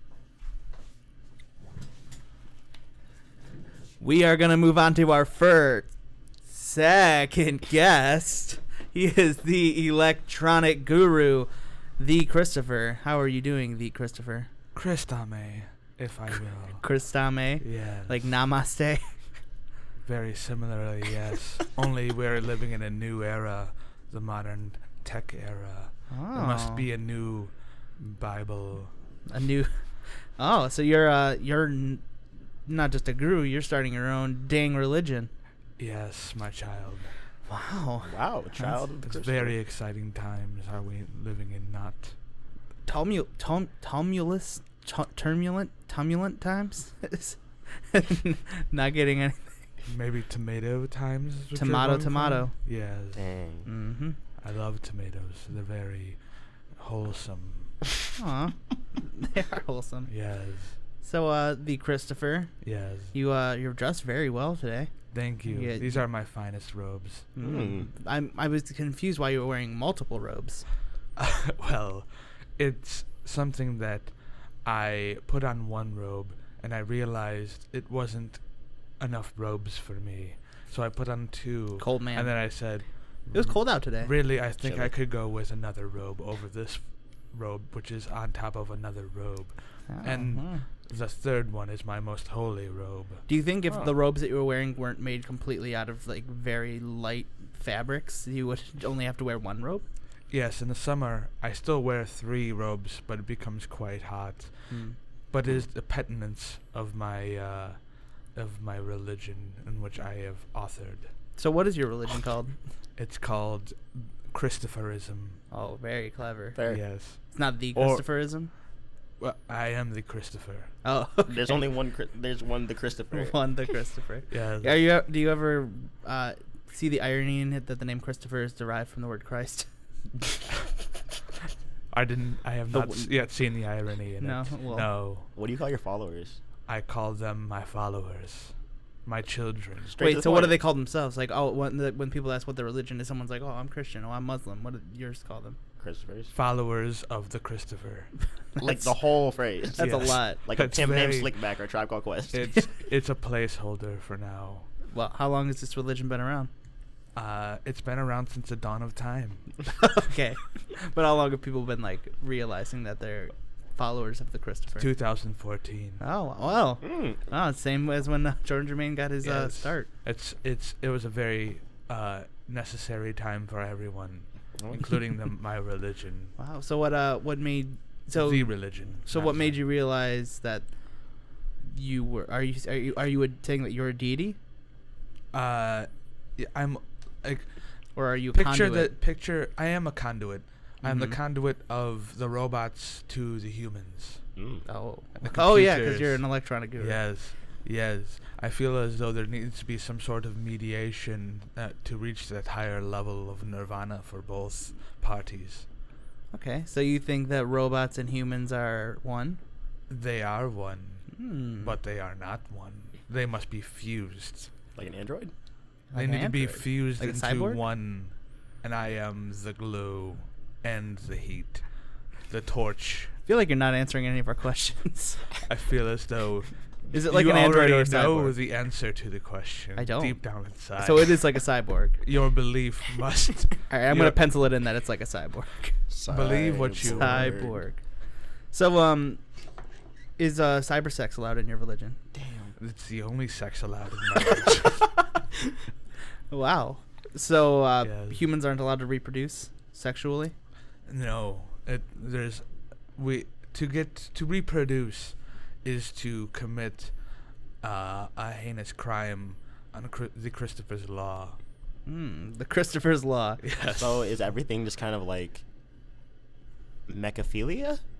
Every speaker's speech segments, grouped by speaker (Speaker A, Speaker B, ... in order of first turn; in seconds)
Speaker A: 4.0-5.9, 6.5-14.5, 16.8-19.0, 26.1-26.9, 29.3-29.7, 30.4-32.0, 32.7-35.3, 37.5-38.8, 42.9-49.6, 51.5-52.5, 53.6-54.2, 58.2-60.1, 61.0-62.5, 63.1-64.9, 65.5-66.0, 67.3-70.6, 81.8-82.3, 83.3-84.1, 89.9-90.6, 93.3-99.8, 104.7-105.0, 111.4-112.5, 115.5-116.6, 117.3-118.5, 120.8-121.7, 123.1-129.7, 132.7-133.1, 134.2-134.9, 140.0-145.6, 148.6-148.9, 149.7-150.4, 154.9-156.5, 159.7-164.9, 166.0-169.9, 176.4-180.7, 181.6-184.4, 187.9-188.9, 190.8-191.2, 194.7-197.0, 206.3-209.4, 211.1-211.7, 215.9-217.6, 223.2-225.3, 226.9-228.3, 229.8-230.2, 230.8-232.0, 233.7-235.8, 236.8-237.8, 238.5-239.2, 240.2-242.0, 246.3-250.3, 261.9-263.4
Speaker B: 14.7-16.8, 17.6-18.1, 20.0-28.9, 35.8-37.1, 39.0-42.1, 49.8-53.2, 54.4-56.2, 56.7-57.8, 60.1-60.8, 62.6-63.1, 65.1-67.3, 71.2-78.4, 79.0-93.2, 100.3-104.5, 105.3-107.8, 108.3-111.1, 113.0-115.4, 116.7-118.1, 119.2-120.7, 124.3-124.8, 131.9-135.3, 136.7-138.5, 139.0-140.0, 146.3-148.1, 149.8-151.3, 152.3-154.7, 157.1-159.5, 164.8-166.0, 169.2-176.3, 178.1-179.6, 185.3-187.5, 188.3-194.2, 195.2-196.2, 196.8-205.6, 209.9-214.5, 215.9-221.6, 222.3-223.1, 225.5-231.2, 232.0-234.2, 236.1-237.4, 242.6-244.9, 247.8-248.2, 250.8-256.9, 257.6-261.4, 263.4-264.1
Speaker C: 38.0-39.5, 53.1-53.7, 67.4-67.9, 84.6-84.9, 116.5-116.8, 121.3-123.3, 135.3-136.4, 139.9-140.6, 145.8-146.3, 148.6-152.4, 166.8-167.2, 194.4-194.6, 214.8-215.3, 235.9-237.6, 242.1-242.5, 263.7-265.4, 266.9-267.8